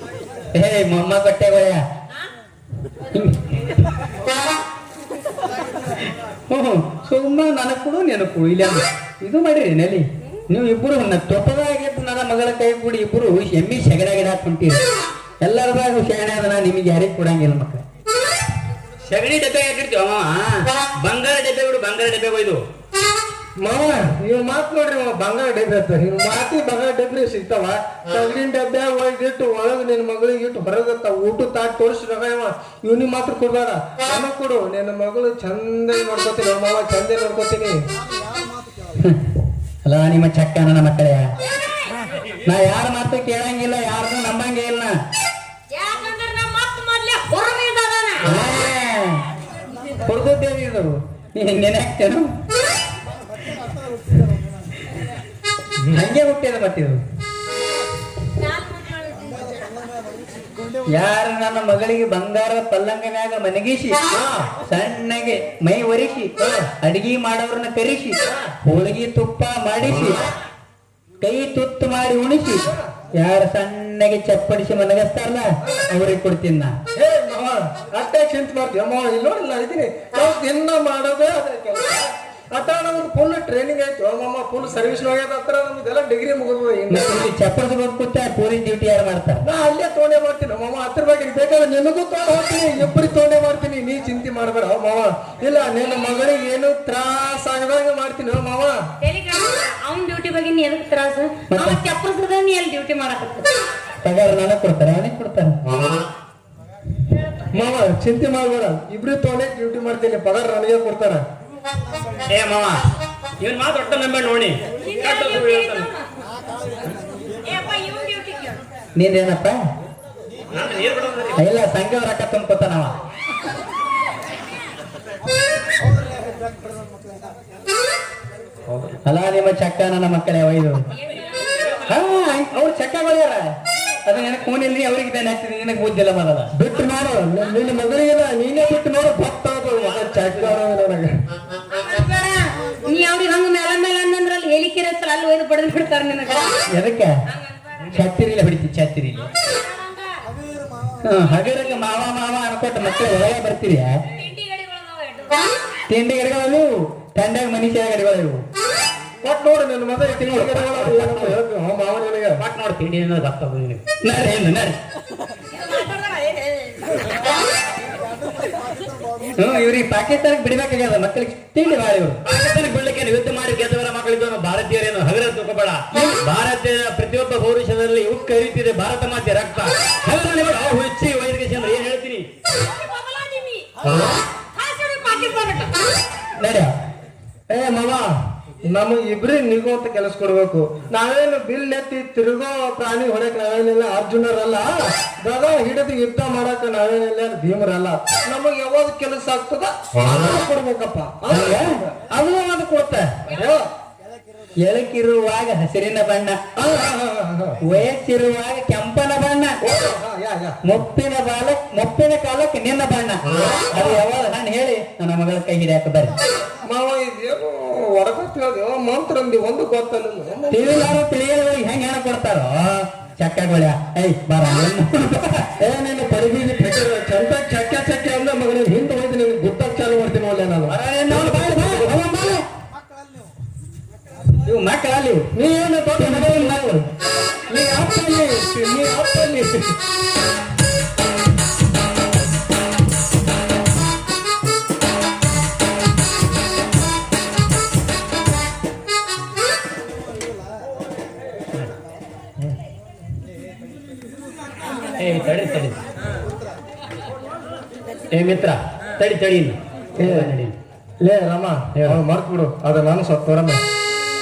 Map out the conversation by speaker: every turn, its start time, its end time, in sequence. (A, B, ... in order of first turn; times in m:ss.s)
0:00.6-0:01.8 A
0:03.1-0:03.8 A
0:06.5-0:14.8 A
0:15.4-0:17.8 A
0:19.0-0:22.6 B
0:23.6-0:37.8 C
0:39.8-0:41.3 A
0:41.5-0:42.0 D
0:42.5-0:44.9 A
0:45.7-0:48.3 D
0:48.2-0:49.2 A
0:50.0-0:52.3 A
0:55.9-0:57.0 A
0:58.4-0:59.4 D
1:00.9-1:04.0 A
1:04.1-1:04.5 C
1:04.7-1:10.3 A
1:06.4-1:06.7 C
1:08.3-1:08.5 C
1:11.2-1:12.6 A
1:13.2-1:16.8 A
1:17.0-1:27.2 C
1:26.9-1:29.4 A
1:29.4-1:38.8 C
1:39.0-1:43.5 D
1:41.5-1:41.8 A
1:44.0-1:45.6 A
1:47.5-1:51.2 C
1:52.3-1:52.8 B
1:53.4-1:55.9 B
1:54.8-1:56.1 D
1:57.4-1:58.6 D
1:59.0-1:59.6 A
2:00.5-2:01.4 B
2:01.4-2:03.0 A
2:08.7-2:09.0 C
2:09.0-2:10.8 A
2:11.0-2:11.6 D
2:11.9-2:13.5 A
2:14.1-2:16.5 A
2:16.6-2:21.1 C
2:21.7-2:26.6 D
2:26.7-2:27.1 A
2:27.3-2:27.9 D
2:27.9-2:29.3 A
2:29.4-2:30.1 D
2:31.0-2:33.9 A
2:34.1-2:35.5 D
2:35.9-2:38.4 A
2:39.2-2:42.4 C
2:40.2-2:41.3 A
2:42.4-2:43.8 B
2:44.0-2:44.8 A
2:45.6-2:46.4 D
2:49.4-2:52.2 A
2:52.2-3:02.2 B
3:02.6-3:03.9 D
3:04.4-3:05.9 D
3:06.4-3:06.7 A
3:07.5-3:08.1 C
3:08.7-3:21.9 C
3:21.3-3:23.1 A
3:23.3-3:23.7 C
3:24.7-3:26.4 A
3:26.6-3:27.6 C
3:27.6-3:29.6 A
3:29.6-3:30.6 C
3:30.7-3:36.1 A
3:33.5-3:34.0 C
3:36.6-3:41.0 C
3:40.5-3:45.5 A
3:45.6-3:52.0 C
3:50.7-3:52.4 A
3:51.2-3:51.8 B
3:54.5-3:55.3 A
3:55.3-3:56.6 C
3:56.0-3:56.9 A
3:57.5-3:59.7 C
4:15.0-4:15.8 B
4:18.1-4:20.6 B
4:20.0-4:20.3 C
4:21.0-4:23.6 C
4:21.8-4:22.0 B